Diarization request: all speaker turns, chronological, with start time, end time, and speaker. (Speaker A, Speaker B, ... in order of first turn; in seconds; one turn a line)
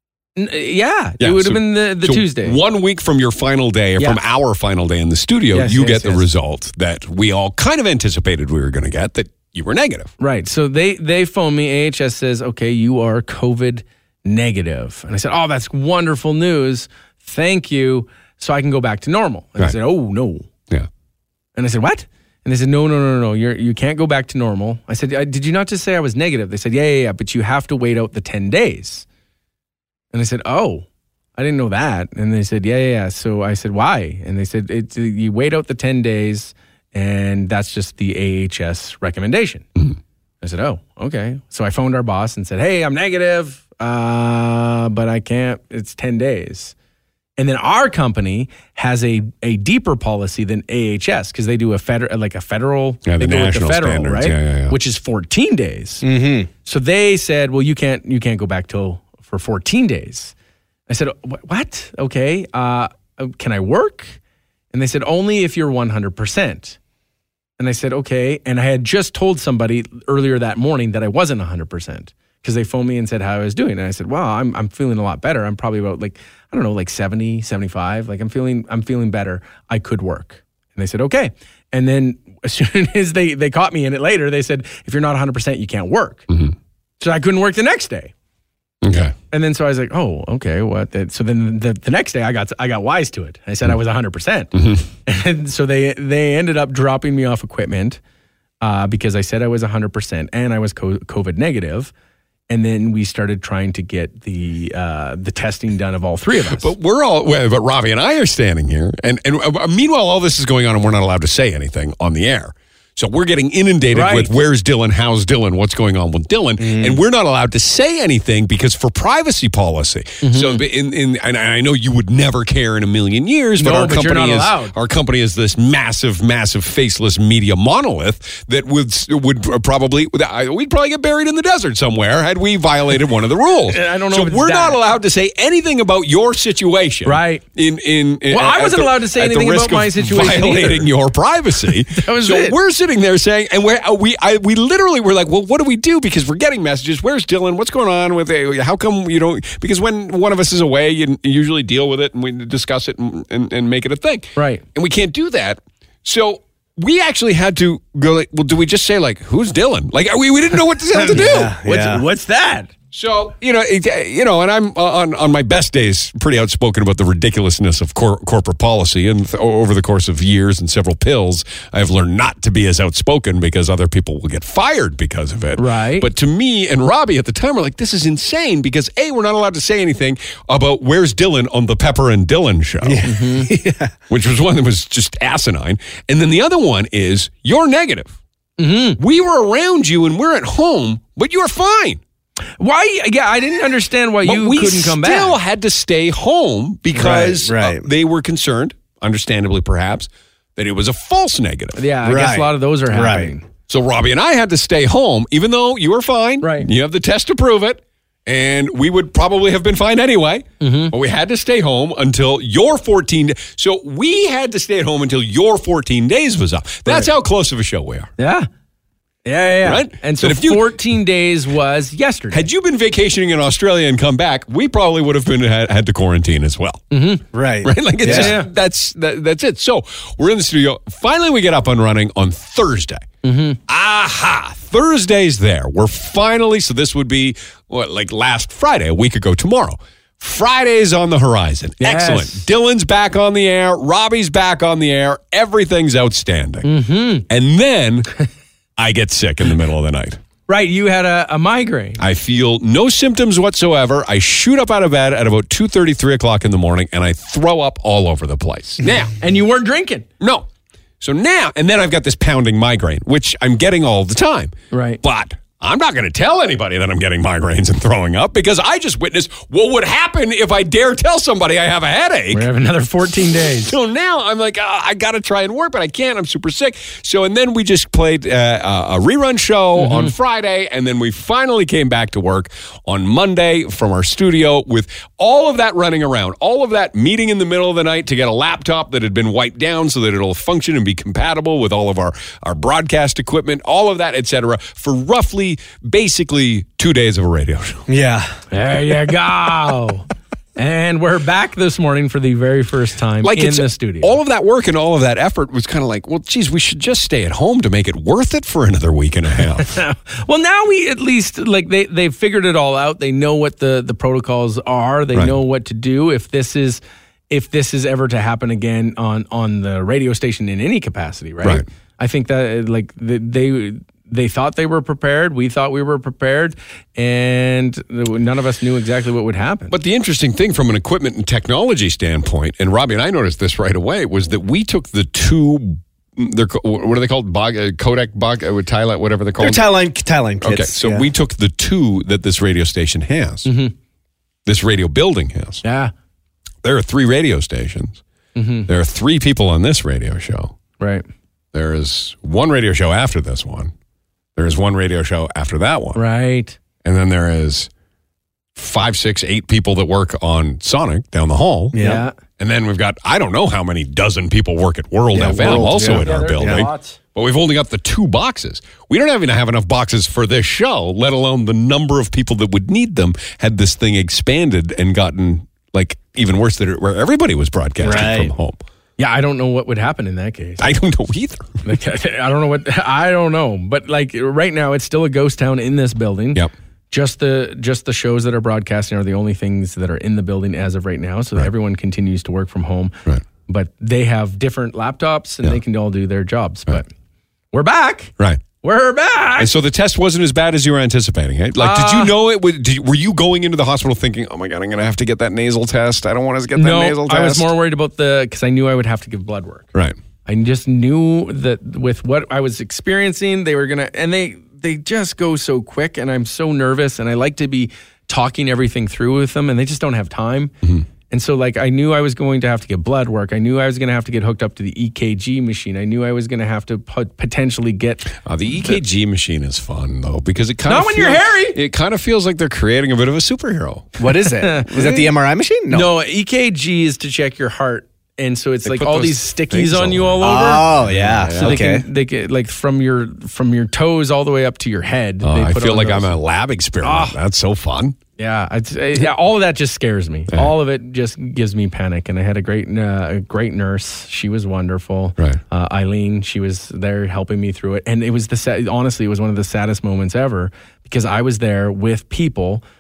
Speaker A: 0.4-2.6
Speaker B: 1.2-10.1
Speaker A: 5.5-6.2
Speaker A: 10.2-20.5
Speaker A: 21.6-29.1
Speaker A: 30.1-39.7
Speaker A: 40.4-46.7
Speaker A: 47.4-56.0
Speaker B: 53.1-54.8
Speaker C: 56.0-56.5
Speaker A: 56.6-60.3
Speaker A: 60.9-64.2
Speaker A: 64.7-66.8
Speaker A: 67.6-86.2
Speaker A: 87.0-88.1
Speaker B: 88.8-89.1
Speaker A: 89.3-98.0
Speaker B: 94.5-94.8
Speaker A: 98.6-101.9
Speaker A: 102.5-106.7
Speaker B: 106.6-161.5
Speaker A: 113.9-114.3
Speaker C: 116.6-117.0
Speaker A: 120.2-120.6
Speaker A: 123.6-124.7
Speaker A: 133.7-134.8
Speaker A: 137.1-137.4
Speaker A: 138.3-140.9
Speaker A: 141.9-142.6
Speaker A: 154.4-154.6
Speaker A: 160.9-162.7
Speaker C: 161.1-162.0
Speaker B: 162.9-183.1
Speaker A: 175.6-176.1
Speaker C: 182.8-183.9
Speaker A: 183.1-183.5
Speaker B: 184.1-188.2
Speaker A: 188.6-189.0
Speaker B: 189.0-192.0
Speaker A: 192.6-195.4
Speaker B: 194.2-201.8
Speaker C: 196.9-197.9
Speaker A: 201.8-203.4
Speaker C: 202.0-203.3
Speaker B: 203.7-218.1
Speaker A: 206.4-206.7
Speaker A: 210.6-210.9
Speaker A: 218.2-218.5
Speaker A: 219.2-222.5
Speaker B: 219.6-220.7
Speaker B: 222.3-226.8
Speaker A: 226.9-227.2
Speaker C: 227.3-228.3
Speaker B: 227.6-233.1
Speaker A: 228.1-228.5
Speaker A: 233.2-233.6
Speaker B: 233.7-246.7
Speaker A: 241.8-242.4
Speaker A: 246.7-247.3
Speaker B: 247.3-248.1
Speaker B: 248.8-250.2
Speaker A: 250.5-252.0
Speaker B: 252.0-259.2
Speaker A: 259.2-260.1
Speaker B: 260.2-260.5
Speaker B: 261.0-272.5
Speaker A: 264.7-265.0
Speaker A: 272.3-273.8
Speaker B: 273.7-297.8
Speaker A: 279.8-280.1
Speaker C: 297.9-298.4
Speaker A: 298.5-304.1
Speaker B: 303.2-309.8
Speaker A: 309.6-329.7
Speaker B: 329.7-339.6
Speaker C: 339.4-341.1
Speaker B: 340.4-343.5
Speaker A: 343.4-343.7
Speaker B: 344.5-345.6
Speaker A: 345.6-345.9
Speaker B: 346.6-348.0
Speaker A: 348.4-348.7
Speaker B: 348.7-350.6
Speaker B: 351.5-353.7
Speaker B: 354.4-356.0
Speaker A: 355.9-356.6
Speaker B: 356.8-357.7
Speaker B: 358.6-361.8
Speaker C: 361.7-362.0
Speaker A: 361.8-362.1
Speaker B: 362.4-378.6
Speaker C: 365.1-366.7
Speaker A: 365.3-367.0
Speaker C: 377.8-378.3
Speaker A: 379.0-380.7
Speaker B: 380.6-381.6
Speaker A: 381.6-392.9
Speaker A: 393.5-396.9
Speaker A: 397.5-399.5
Speaker B: 399.4-407.5
Speaker A: 401.6-402.1
Speaker A: 406.6-409.7
Speaker A: 410.3-420.5
Speaker A: 421.1-428.8
Speaker B: 428.2-433.9
Speaker A: 430.7-431.6
Speaker C: 434.0-435.9
Speaker A: 434.4-435.1
Speaker A: 435.7-440.7
Speaker B: 438.6-441.6
Speaker C: 440.2-441.9
Speaker A: 441.4-446.2
Speaker B: 445.2-448.0
Speaker A: 446.8-447.2
Speaker A: 448.2-462.6